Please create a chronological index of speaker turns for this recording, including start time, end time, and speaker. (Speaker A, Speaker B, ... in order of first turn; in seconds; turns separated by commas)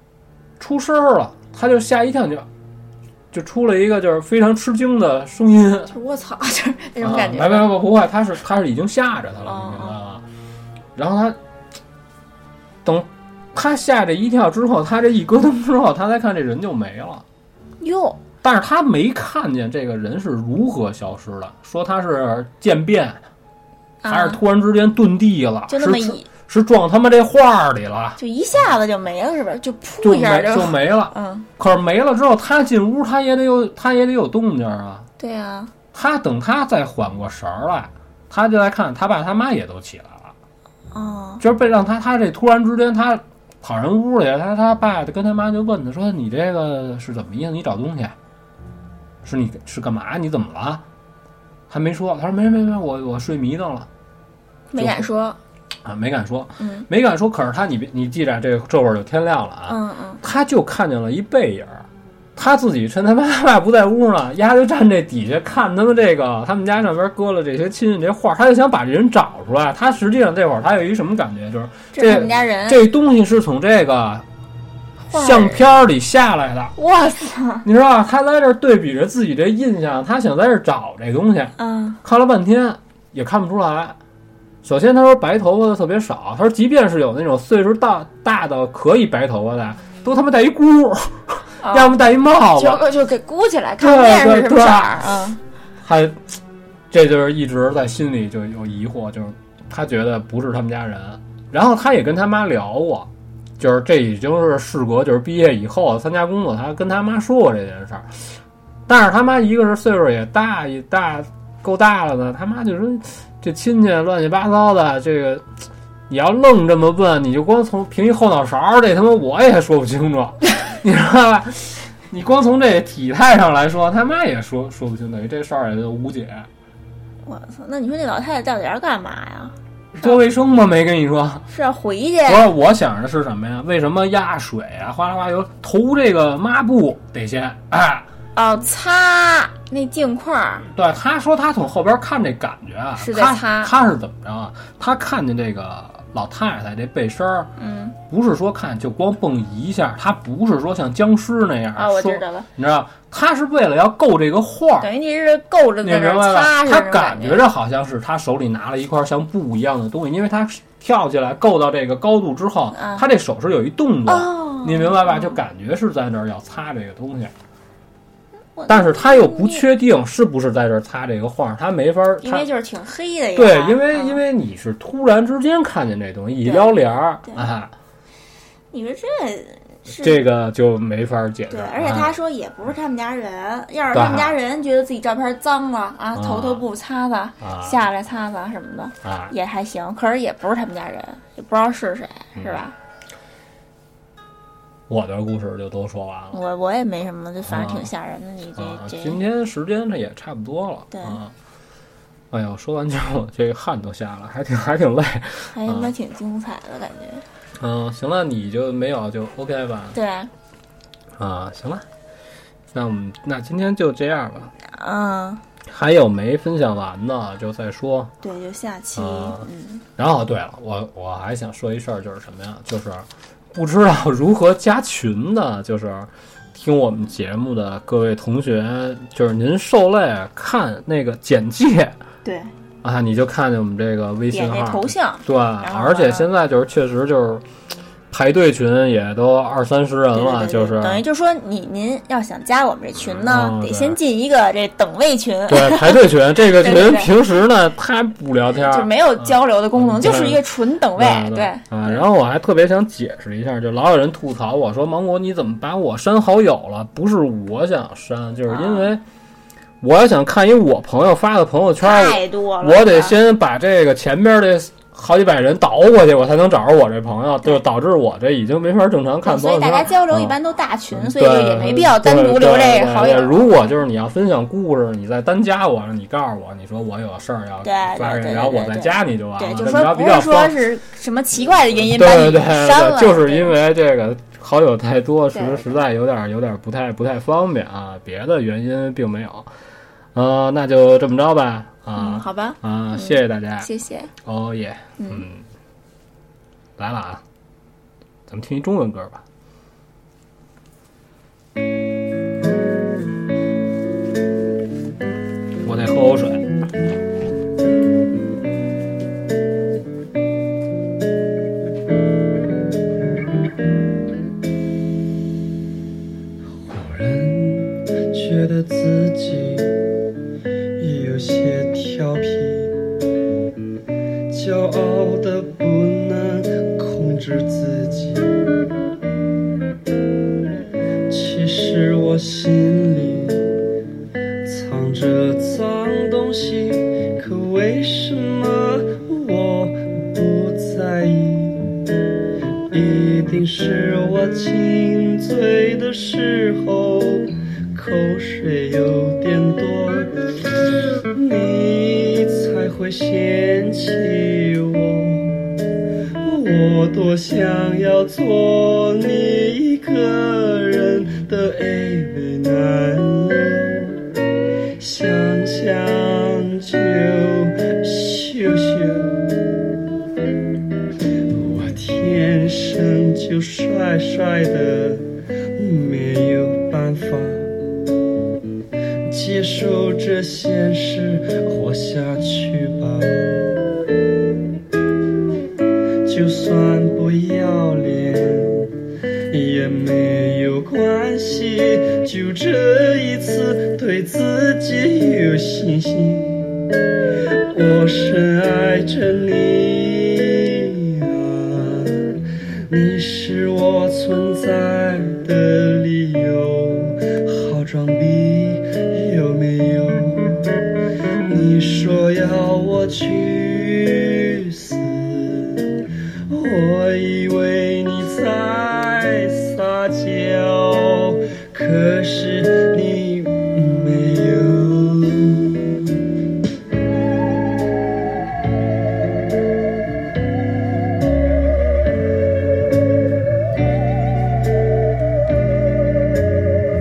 Speaker A: 0.6-2.5, Speaker A: 3.3-5.9, Speaker B: 5.9-7.7, Speaker A: 7.0-10.2, Speaker B: 9.4-10.0, Speaker A: 11.0-11.4, Speaker A: 12.8-17.2, Speaker B: 17.8-18.2, Speaker A: 18.4-23.2, Speaker B: 24.0-24.4, Speaker A: 24.1-28.2, Speaker B: 25.7-26.3, Speaker B: 28.2-31.5, Speaker A: 30.0-35.1, Speaker B: 35.2-35.7, Speaker A: 35.9-40.3, Speaker B: 40.9-41.4, Speaker A: 41.4-48.2, Speaker A: 49.2-50.8, Speaker A: 51.7-53.9, Speaker B: 54.7-55.4, Speaker A: 54.8-55.1, Speaker A: 55.8-74.2, Speaker B: 56.6-56.9, Speaker B: 59.7-60.2, Speaker B: 71.9-72.9, Speaker B: 75.1-75.7, Speaker A: 75.1-76.8, Speaker B: 76.8-77.7, Speaker A: 77.6-84.0, Speaker B: 81.6-82.0, Speaker A: 84.6-92.8, Speaker B: 91.6-92.0, Speaker B: 92.5-95.4, Speaker A: 93.8-95.0, Speaker A: 95.8-96.3, Speaker A: 96.9-115.4, Speaker A: 116.1-126.5, Speaker B: 127.2-130.1, Speaker A: 129.9-131.4, Speaker B: 131.5-132.5, Speaker A: 132.3-138.1, Speaker B: 138.3-140.7, Speaker A: 140.7-147.5, Speaker B: 143.0-143.8, Speaker B: 147.6-148.0, Speaker A: 148.1-154.9, Speaker B: 151.8-152.5, Speaker B: 154.8-157.4, Speaker A: 155.8-167.3, Speaker B: 162.7-163.1, Speaker B: 164.1-165.4, Speaker B: 168.6-169.7, Speaker A: 168.7-172.5, Speaker B: 172.2-174.2, Speaker A: 173.3-177.7, Speaker B: 176.4-177.5, Speaker B: 178.7-180.2, Speaker A: 179.9-182.1, Speaker B: 181.5-192.8, Speaker A: 183.9-184.3, Speaker A: 186.2-186.6, Speaker A: 187.4-187.8, Speaker A: 189.0-189.3, Speaker A: 194.9-196.4, Speaker B: 196.3-199.2, Speaker A: 197.4-197.9, Speaker A: 198.6-201.3, Speaker B: 200.9-201.2, Speaker A: 202.3-205.9, Speaker B: 205.5-207.3, Speaker A: 207.6-210.0, Speaker B: 209.9-210.3, Speaker A: 211.2-211.9, Speaker A: 212.7-214.5, Speaker B: 214.6-215.4, Speaker A: 215.7-218.1, Speaker B: 218.2-219.8, Speaker A: 218.9-232.0, Speaker B: 232.2-232.5, Speaker A: 232.8-237.4, Speaker B: 234.3-236.3, Speaker A: 238.1-241.0, Speaker B: 240.1-247.1, Speaker A: 243.0-244.0, Speaker A: 245.5-259.0, Speaker B: 248.5-252.0, Speaker B: 258.5-258.9, Speaker A: 259.8-270.4, Speaker B: 261.8-263.1, Speaker B: 269.2-273.8, Speaker A: 270.9-280.6, Speaker B: 277.6-283.6, Speaker A: 281.9-289.5, Speaker B: 285.3-285.8, Speaker A: 290.1-293.7, Speaker B: 292.0-294.1, Speaker A: 294.2-295.5, Speaker B: 295.0-295.2, Speaker A: 296.8-297.2, Speaker A: 298.3-299.2, Speaker A: 305.6-306.6, Speaker C: 316.6-319.7, Speaker C: 320.8-322.8, Speaker C: 324.3-328.3, Speaker C: 331.1-333.5, Speaker C: 334.4-341.6, Speaker C: 342.7-350.1, Speaker C: 351.1-355.4, Speaker C: 356.2-364.0, Speaker C: 364.8-369.3, Speaker C: 371.3-377.6, Speaker C: 379.1-383.5, Speaker C: 386.0-388.8, Speaker C: 389.3-396.6, Speaker C: 397.5-410.5, Speaker C: 411.2-415.8, Speaker C: 416.3-425.8